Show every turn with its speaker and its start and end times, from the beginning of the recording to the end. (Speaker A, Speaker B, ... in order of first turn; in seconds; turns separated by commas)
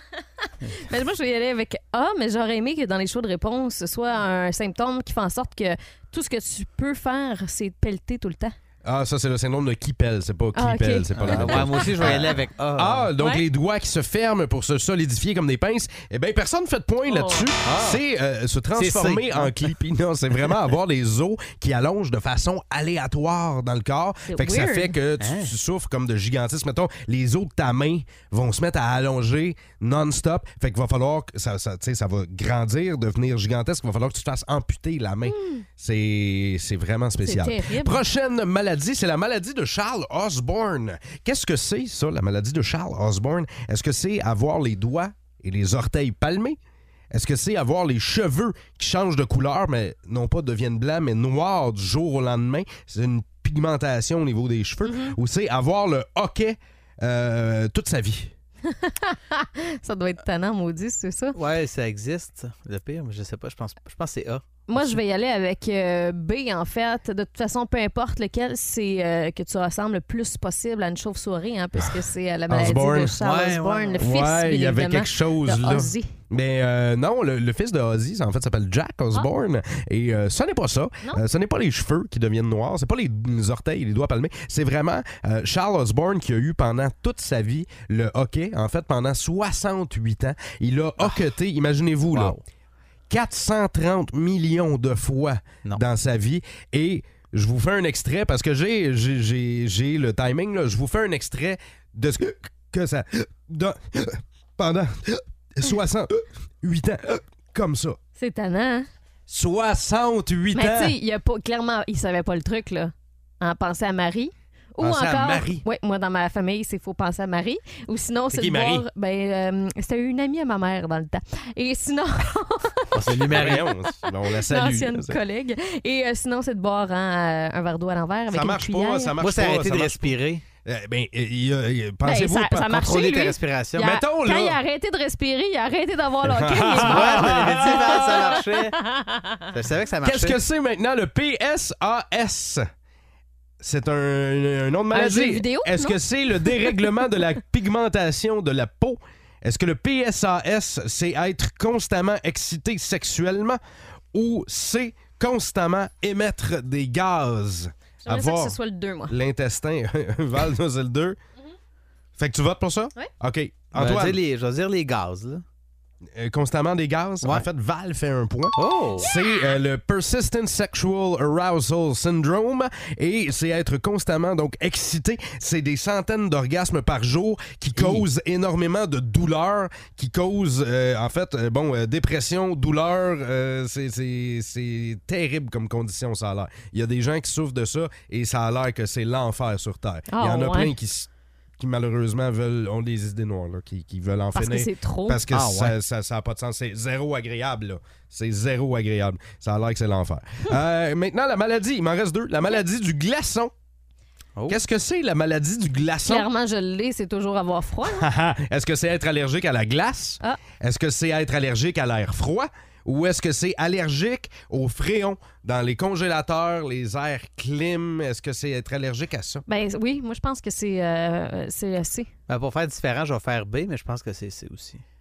Speaker A: 0.7-8.6, Speaker B: 8.8-46.6, Speaker A: 10.6-12.1, Speaker C: 11.2-13.1, Speaker A: 13.2-13.4, Speaker A: 17.1-17.5, Speaker C: 17.6-18.0, Speaker C: 18.8-19.7, Speaker A: 24.3-25.0, Speaker C: 25.2-25.5, Speaker A: 35.3-35.6, Speaker A: 37.2-38.0, Speaker B: 47.1-58.3, Speaker A: 54.9-55.1, Speaker A: 58.7-61.4, Speaker C: 61.4-65.0, Speaker A: 64.7-76.1, Speaker B: 71.8-73.2, Speaker C: 73.2-74.0, Speaker B: 74.0-92.4, Speaker C: 92.1-92.4, Speaker B: 93.1-108.0, Speaker A: 108.2-108.9, Speaker B: 109.3-111.0, Speaker A: 110.5-122.9, Speaker B: 114.8-115.6, Speaker B: 118.3-118.9, Speaker C: 122.9-123.7, Speaker B: 123.1-125.2, Speaker A: 123.5-129.1, Speaker B: 128.3-130.1, Speaker C: 129.2-130.4, Speaker B: 130.6-132.8, Speaker A: 132.0-139.4, Speaker C: 132.8-133.9, Speaker B: 133.8-134.6, Speaker B: 136.2-138.3, Speaker C: 136.8-138.8, Speaker C: 139.5-140.4, Speaker B: 140.0-142.7, Speaker B: 143.6-153.6, Speaker A: 144.9-146.8, Speaker B: 154.1-158.6, Speaker A: 158.0-159.2, Speaker B: 159.1-161.2, Speaker B: 162.2-164.2, Speaker C: 163.7-165.4, Speaker B: 166.1-203.5, Speaker C: 168.6-169.1, Speaker A: 169.0-169.5, Speaker C: 177.8-178.0, Speaker A: 190.1-190.7, Speaker A: 194.3-195.2, Speaker C: 195.3-195.8, Speaker B: 204.5-206.3, Speaker A: 206.1-208.1, Speaker B: 207.8-219.4, Speaker A: 219.5-222.1, Speaker C: 222.3-224.8